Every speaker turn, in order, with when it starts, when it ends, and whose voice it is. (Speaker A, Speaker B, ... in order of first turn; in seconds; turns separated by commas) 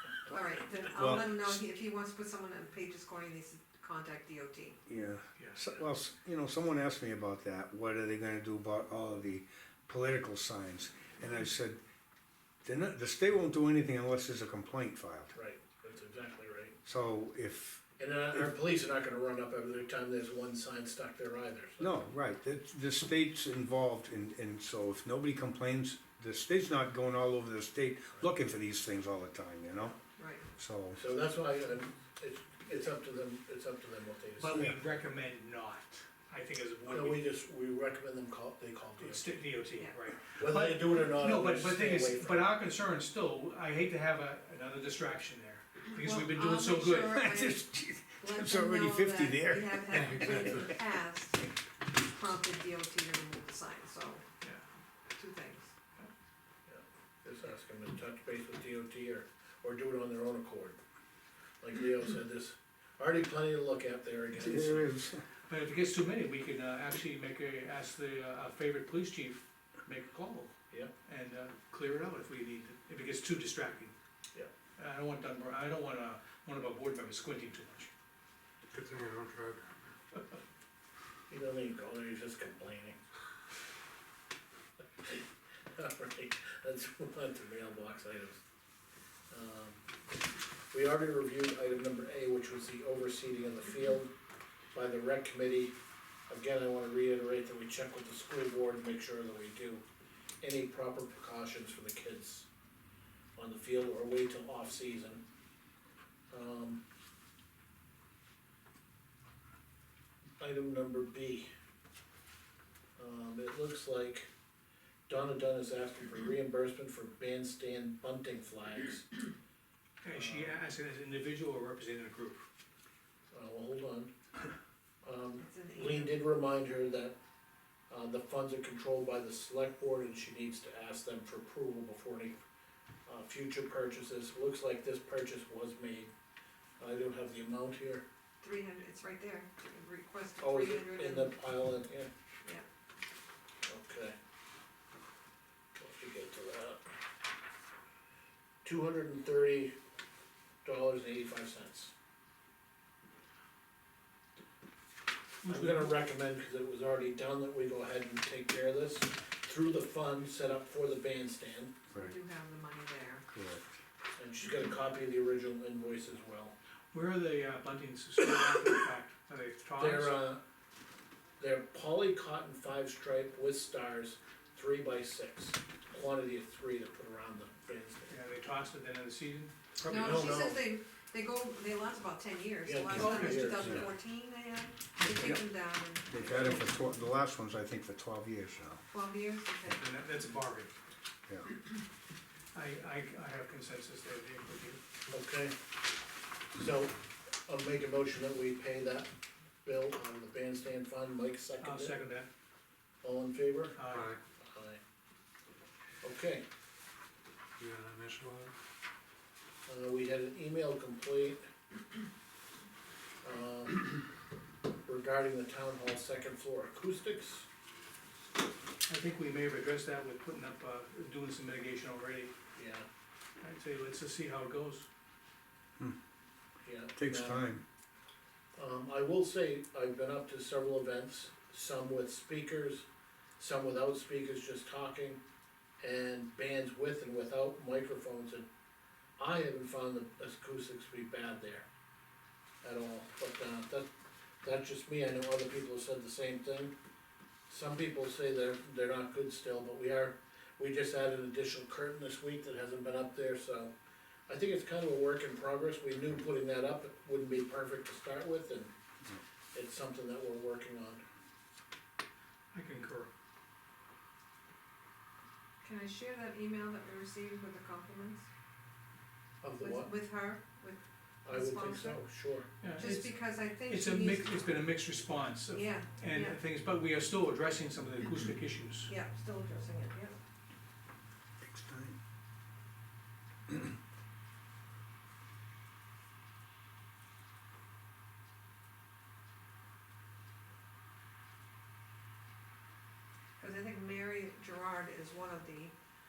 Speaker A: 0.3-4.8, Speaker B: 0.9-1.6, Speaker B: 4.9-11.8, Speaker C: 5.4-5.8, Speaker B: 12.6-15.3, Speaker D: 15.3-16.7, Speaker B: 16.8-17.8, Speaker D: 18.0-21.9, Speaker B: 21.8-29.9, Speaker A: 30.2-30.4, Speaker B: 30.5-31.0, Speaker D: 30.9-34.6, Speaker C: 34.4-37.2, Speaker D: 36.9-39.3, Speaker C: 39.0-47.2, Speaker D: 40.4-42.5, Speaker A: 46.0-47.7, Speaker B: 47.0-50.5, Speaker A: 48.2-54.2, Speaker E: 50.0-50.7, Speaker A: 55.1-55.7, Speaker D: 56.6-60.8, Speaker D: 61.6-65.0, Speaker B: 64.3-65.2, Speaker C: 65.5-70.5, Speaker C: 71.0-73.9, Speaker C: 74.8-77.9, Speaker E: 78.7-79.9, Speaker D: 81.3-83.0, Speaker D: 85.7-88.4, Speaker D: 89.3-89.8, Speaker D: 90.7-94.1, Speaker D: 94.7-95.7, Speaker D: 96.3-99.8, Speaker D: 100.4-102.5, Speaker D: 103.4-105.2, Speaker D: 106.3-106.8, Speaker D: 110.4-111.5, Speaker D: 113.0-114.3, Speaker D: 115.1-119.1, Speaker C: 120.0-122.5, Speaker D: 120.1-120.6, Speaker D: 123.3-124.1, Speaker D: 125.0-127.2, Speaker A: 125.4-126.2, Speaker D: 127.9-132.4, Speaker D: 133.1-136.1, Speaker D: 136.8-138.0, Speaker A: 138.4-141.3, Speaker D: 140.4-142.1, Speaker D: 143.6-144.1, Speaker D: 145.7-146.8, Speaker D: 148.6-149.7, Speaker D: 150.6-151.9, Speaker C: 155.4-156.0, Speaker D: 155.4-161.7, Speaker A: 161.9-163.2, Speaker B: 163.3-163.6, Speaker D: 164.2-166.5, Speaker C: 166.9-170.3, Speaker D: 169.8-170.4, Speaker D: 171.4-178.1, Speaker C: 178.1-180.3, Speaker A: 179.8-186.6, Speaker D: 179.9-180.7, Speaker D: 182.6-183.9, Speaker C: 182.9-183.4, Speaker B: 185.1-185.4, Speaker B: 186.1-188.8, Speaker A: 188.9-189.8, Speaker C: 189.7-190.7, Speaker C: 192.5-194.8, Speaker D: 195.1-195.5, Speaker D: 196.5-196.9, Speaker D: 197.5-199.1, Speaker D: 199.6-201.9, Speaker C: 201.6-202.3, Speaker D: 203.0-203.8, Speaker C: 203.7-204.1, Speaker E: 203.9-204.2, Speaker D: 204.4-204.8, Speaker D: 206.0-206.4, Speaker E: 207.6-208.5, Speaker D: 209.7-211.4, Speaker D: 213.2-213.9, Speaker D: 214.8-217.4, Speaker C: 218.9-222.3, Speaker D: 222.5-222.8, Speaker C: 223.4-224.9, Speaker D: 226.6-227.4, Speaker B: 226.9-227.6, Speaker D: 228.6-232.8, Speaker D: 233.4-235.2, Speaker D: 235.8-238.5, Speaker D: 239.2-241.7, Speaker D: 242.6-243.9, Speaker D: 244.4-246.7, Speaker D: 247.5-253.7, Speaker D: 254.3-258.7, Speaker D: 259.5-261.0, Speaker C: 262.5-263.1, Speaker A: 265.6-268.3, Speaker D: 269.4-269.9, Speaker A: 269.6-272.1, Speaker D: 271.2-272.5, Speaker C: 272.6-278.9, Speaker A: 272.8-274.4, Speaker A: 275.5-276.4, Speaker A: 278.9-280.1, Speaker B: 281.4-281.9, Speaker A: 293.4-295.7